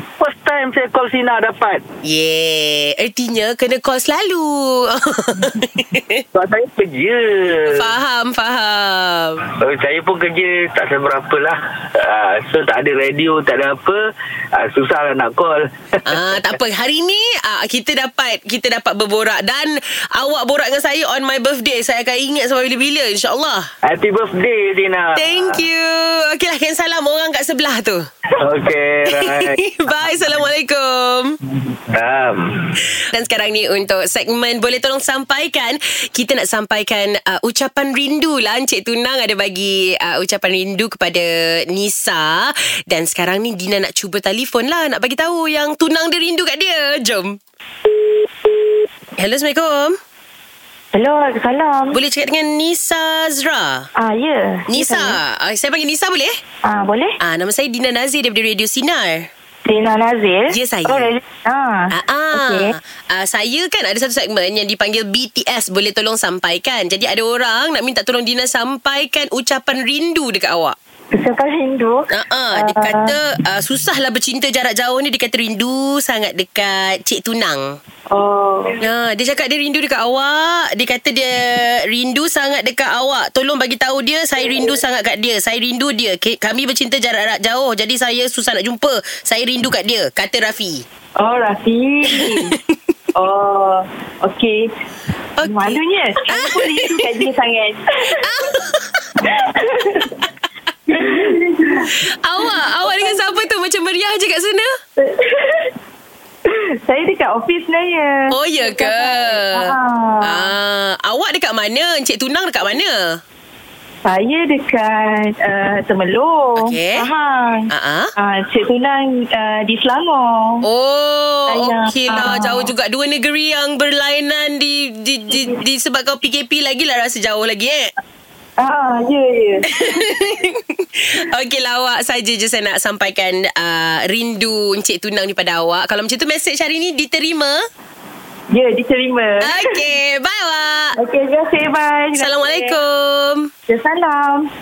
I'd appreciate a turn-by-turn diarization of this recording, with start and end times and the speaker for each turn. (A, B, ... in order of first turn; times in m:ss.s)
0:00.2-0:01.8 A
0:02.0-0:06.2 B
0:06.3-0:07.9 A
0:07.7-0:09.4 B
0:09.6-0:14.0 A
0:14.6-0:15.6 A
0:16.0-0:23.7 B
0:23.8-0:25.6 A
0:25.1-0:28.0 B
0:28.4-0:29.6 A
0:29.1-0:31.4 B
0:31.9-0:32.4 A
0:33.1-0:47.4 B
0:49.2-0:50.0 B
0:50.9-0:52.0 C
0:51.9-0:53.9 B
0:54.0-0:55.2 C
0:54.7-0:56.4 B
0:56.6-0:57.2 C
0:57.2-0:59.3 B
0:59.6-1:02.8 C
1:00.5-1:01.1 B
1:01.9-1:10.8 B
1:11.2-1:13.2 C
1:12.1-1:17.8 B
1:18.1-1:18.8 C
1:18.8-1:30.8 B
1:31.2-1:32.6 C
1:33.2-1:34.7 C
1:35.4-1:37.2 B
1:35.4-1:38.2 C
1:38.2-1:39.0 B
1:39.4-1:39.7 C
1:40.9-1:41.9 C
1:41.8-1:44.7 B
1:45.0-1:45.7 C
1:46.5-1:50.5 C
1:48.3-1:53.2 B
1:54.0-2:00.7 C
1:56.6-1:57.1 B
1:57.7-1:58.1 B
2:00.6-2:07.9 B
2:01.5-2:02.7 C
2:08.6-2:09.7 C
2:09.7-2:17.6 B
2:18.5-2:19.6 C
2:19.4-2:21.0 B
2:21.0-2:22.8 C
2:22.2-2:23.5 B
2:23.7-2:24.5 C